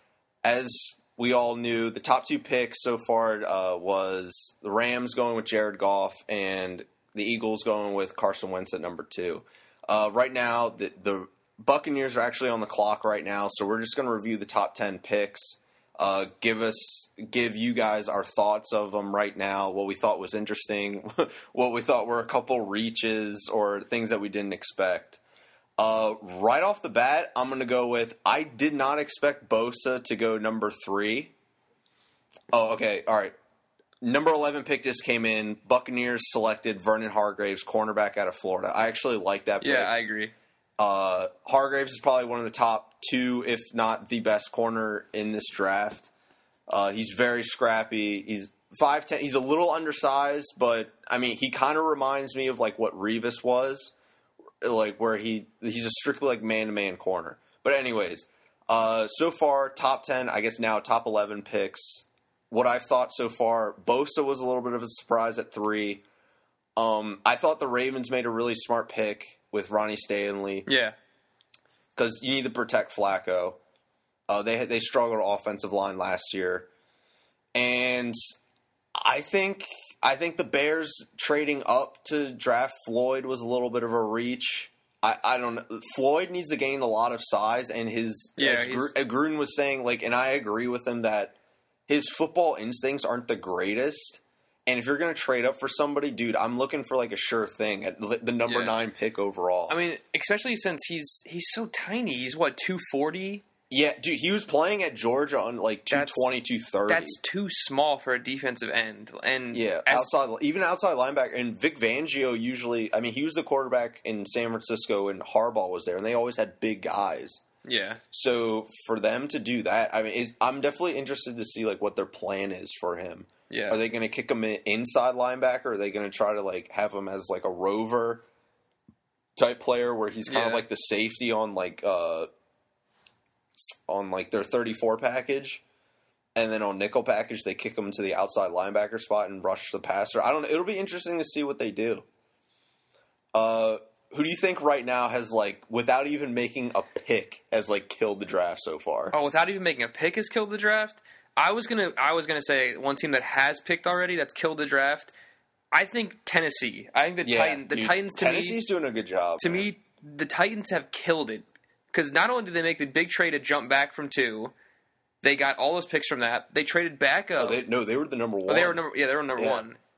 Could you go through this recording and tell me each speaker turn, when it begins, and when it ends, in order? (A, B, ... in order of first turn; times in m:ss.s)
0:00.4-0:25.2 A
0:25.8-0:31.3 A
0:32.5-0:33.4 A
0:34.0-0:39.9 A
0:39.6-0:40.3 B
0:40.8-0:46.1 A
0:46.7-0:53.9 A
0:54.6-1:06.0 A
1:06.8-1:10.6 A
1:10.6-1:10.9 B
1:12.0-1:13.6 A
1:14.3-1:16.7 A
1:17.5-1:18.3 A
1:19.0-1:31.4 A
1:28.4-1:28.9 B
1:31.9-1:39.8 A
1:38.5-1:38.8 B
1:39.7-1:43.4 B
1:43.7-1:47.2 A
1:45.9-1:46.3 B
1:46.9-1:50.1 B
1:49.5-1:57.4 A
1:57.6-1:58.0 B
1:58.1-2:08.2 A
2:03.5-2:03.8 B
2:09.4-2:12.3 A
2:10.3-2:10.6 B
2:13.9-2:15.6 A
2:16.4-2:22.0 A
2:23.3-2:29.1 A
2:29.1-2:35.1 B
2:35.7-2:38.6 B
2:37.2-2:39.7 A
2:39.4-2:44.5 B
2:45.2-2:47.6 B
2:47.4-2:48.8 A
2:48.5-2:49.8 B
2:49.4-2:49.6 A